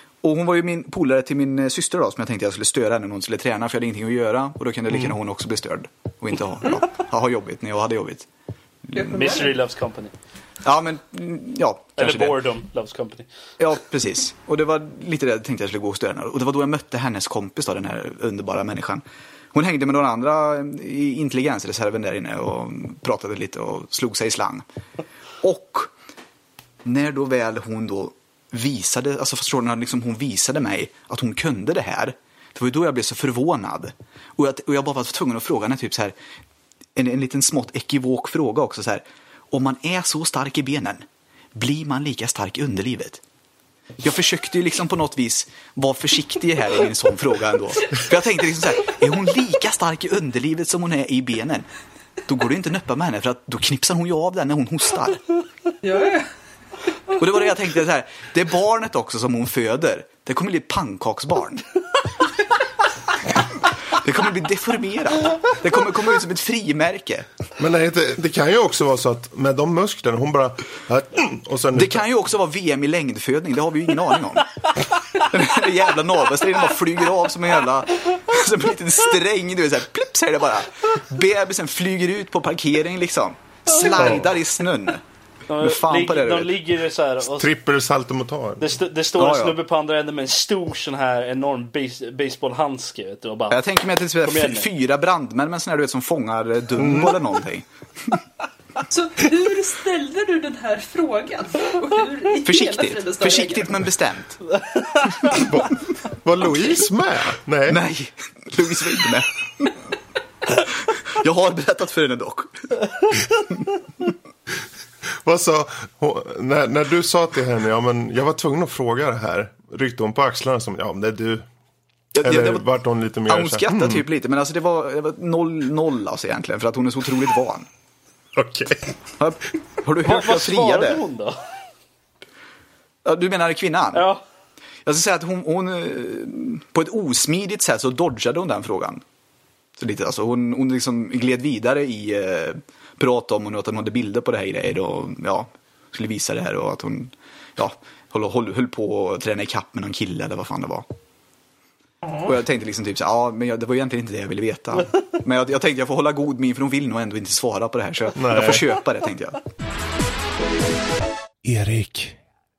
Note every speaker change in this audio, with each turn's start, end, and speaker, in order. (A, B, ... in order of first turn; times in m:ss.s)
0:00.2-0:08.3 A
0:08.9-0:09.4 A
0:09.0-0:10.1 B
0:10.6-0:12.4 A
0:12.0-0:13.3 B
0:13.6-0:24.6 A
0:25.4-0:25.9 A
0:26.8-0:36.2 A
0:37.0-0:43.2 A
0:44.0-0:51.7 A
0:52.3-0:55.2 A
0:57.2-1:01.6 A
1:03.9-1:07.3 A
1:07.6-1:12.1 C
1:11.7-1:14.6 A
1:15.1-1:25.0 A
1:23.9-1:24.3 C
1:25.5-1:27.5 B
1:25.6-1:26.6 A
1:27.3-1:28.7 C
1:28.6-1:33.7 B
1:29.2-1:29.6 A
1:33.5-1:37.7 A
1:34.2-1:34.7 B
1:36.8-1:37.2 C
1:38.9-1:43.8 D
1:42.4-1:44.4 A
1:45.4-1:47.8 C
1:47.7-1:49.7 A
1:50.6-1:52.8 A
1:55.2-2:01.5 C
2:02.1-2:02.7 A
2:02.2-2:04.1 C
2:03.3-2:07.7 A
2:08.4-2:08.9 C
2:09.2-2:11.0 A
2:10.0-2:11.4 B
2:13.0-2:14.1 A
2:13.9-2:14.2 B
2:14.8-2:19.0 A
2:19.8-2:30.9 A
2:32.2-2:39.4 A
2:38.2-2:38.7 C
2:41.4-2:42.2 C